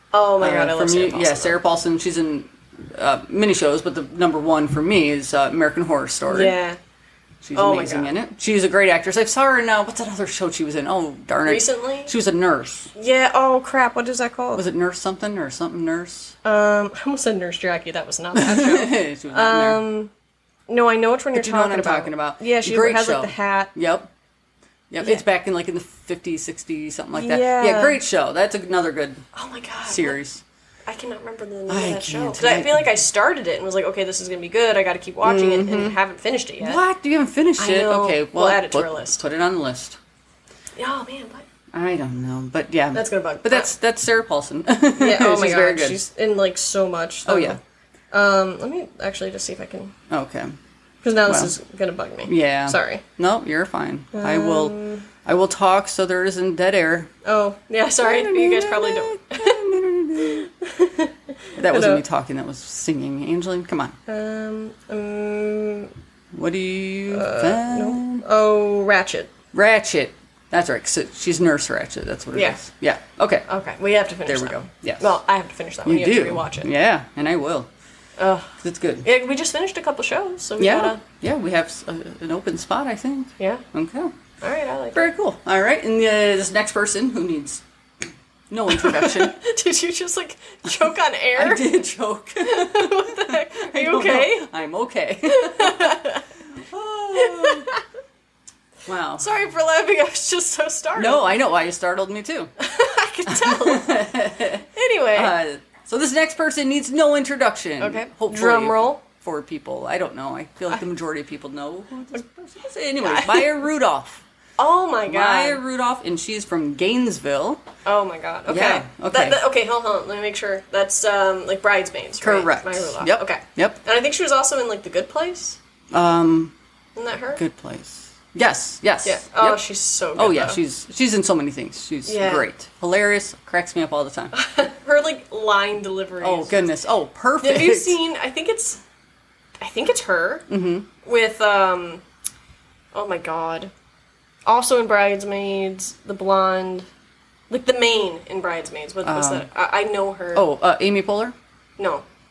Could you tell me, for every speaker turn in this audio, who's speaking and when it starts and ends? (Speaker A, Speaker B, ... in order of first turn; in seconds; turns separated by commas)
Speaker A: 0.1-1.6, Speaker B: 0.4-6.5, Speaker A: 6.3-6.8, Speaker B: 7.4-12.9, Speaker A: 7.5-8.1, Speaker A: 11.4-12.1, Speaker A: 12.9-14.6, Speaker B: 14.5-16.3, Speaker A: 16.4-20.1, Speaker B: 18.3-19.8, Speaker A: 20.7-23.7, Speaker B: 21.3-24.1, Speaker B: 24.9-29.2, Speaker A: 27.1-28.0, Speaker A: 29.3-30.2, Speaker B: 29.8-30.4, Speaker A: 30.9-36.8, Speaker B: 31.7-33.0, Speaker B: 35.2-36.0, Speaker B: 36.6-40.0, Speaker A: 37.6-39.2, Speaker A: 40.8-41.5, Speaker B: 41.7-46.0, Speaker A: 42.9-43.7, Speaker A: 45.0-47.6, Speaker B: 47.2-47.6, Speaker A: 48.1-49.9, Speaker B: 50.1-50.5, Speaker A: 51.0-53.0, Speaker B: 51.3-51.5, Speaker B: 52.2-57.1, Speaker A: 54.1-55.0, Speaker A: 57.2-59.6, Speaker B: 58.0-60.5, Speaker A: 60.2-62.0, Speaker B: 61.5-64.0, Speaker A: 64.1-65.9, Speaker B: 66.3-68.2, Speaker A: 67.1-69.3, Speaker B: 69.5-73.5, Speaker A: 72.3-72.6, Speaker A: 73.5-76.7, Speaker B: 74.2-75.2, Speaker B: 75.8-77.7, Speaker A: 78.2-78.5, Speaker B: 78.6-79.1, Speaker A: 79.0-81.0, Speaker B: 80.6-84.2, Speaker A: 83.4-83.6, Speaker A: 84.4-85.0, Speaker B: 84.9-87.6, Speaker B: 88.5-89.3, Speaker A: 88.7-91.8, Speaker B: 91.3-96.0, Speaker A: 92.4-94.5, Speaker A: 95.2-96.2, Speaker B: 96.5-97.7, Speaker A: 97.1-97.8, Speaker B: 98.8-99.3, Speaker A: 99.2-101.4, Speaker B: 101.0-102.5, Speaker A: 102.6-103.9, Speaker B: 103.2-114.2, Speaker A: 104.7-105.3, Speaker A: 107.8-109.0, Speaker A: 113.0-113.6, Speaker A: 114.6-115.6, Speaker B: 115.0-117.6, Speaker A: 117.8-125.6, Speaker B: 118.5-119.4, Speaker B: 122.2-123.8, Speaker B: 125.9-126.5, Speaker A: 127.0-127.4, Speaker B: 127.3-129.6, Speaker A: 129.0-130.6, Speaker B: 130.1-134.3, Speaker A: 132.1-132.5, Speaker A: 134.3-136.5, Speaker B: 136.2-138.0, Speaker A: 137.4-138.8, Speaker A: 139.6-140.5, Speaker B: 140.5-140.9, Speaker A: 141.0-142.0, Speaker A: 142.9-143.7, Speaker A: 144.4-146.9, Speaker A: 147.5-150.5, Speaker B: 149.0-149.5, Speaker B: 150.3-151.3, Speaker A: 151.8-152.0